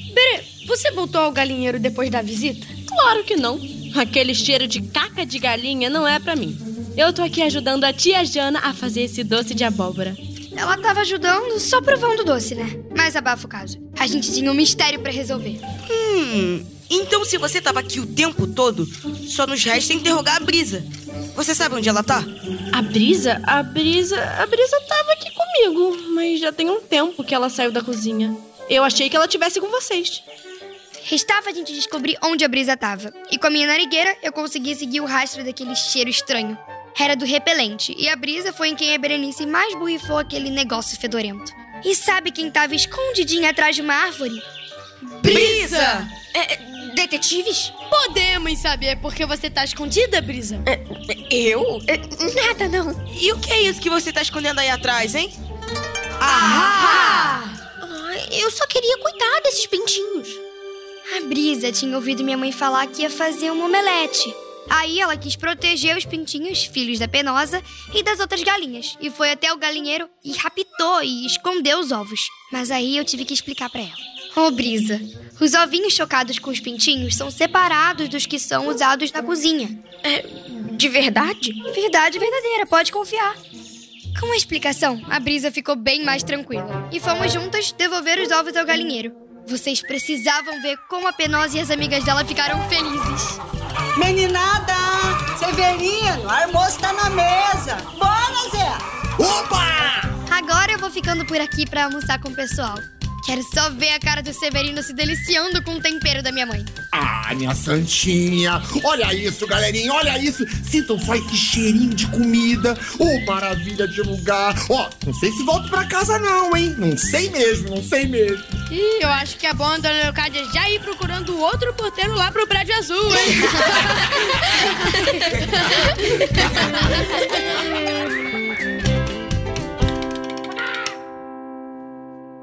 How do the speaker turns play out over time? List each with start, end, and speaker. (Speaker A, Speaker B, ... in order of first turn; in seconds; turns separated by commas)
Speaker A: 0.1-2.7, Speaker B: 2.9-10.2, Speaker C: 10.6-15.6, Speaker D: 15.9-22.3, Speaker B: 22.7-30.2, Speaker C: 31.0-44.4, Speaker A: 45.2-46.0, Speaker D: 45.3-46.1, Speaker E: 46.4-47.7, Speaker A: 47.9-50.6, Speaker E: 50.7-53.0, Speaker D: 53.1-55.4, Speaker D: 56.3-57.0, Speaker C: 56.3-57.4, Speaker E: 56.3-60.4, Speaker C: 61.1-79.8, Speaker E: 80.0-81.6, Speaker C: 81.7-83.4, Speaker C: 84.1-93.4, Speaker F: 93.9-98.8, Speaker G: 99.2-100.2, Speaker C: 100.3-106.7, Speaker G: 106.9-118.5, Speaker A: 118.7-124.3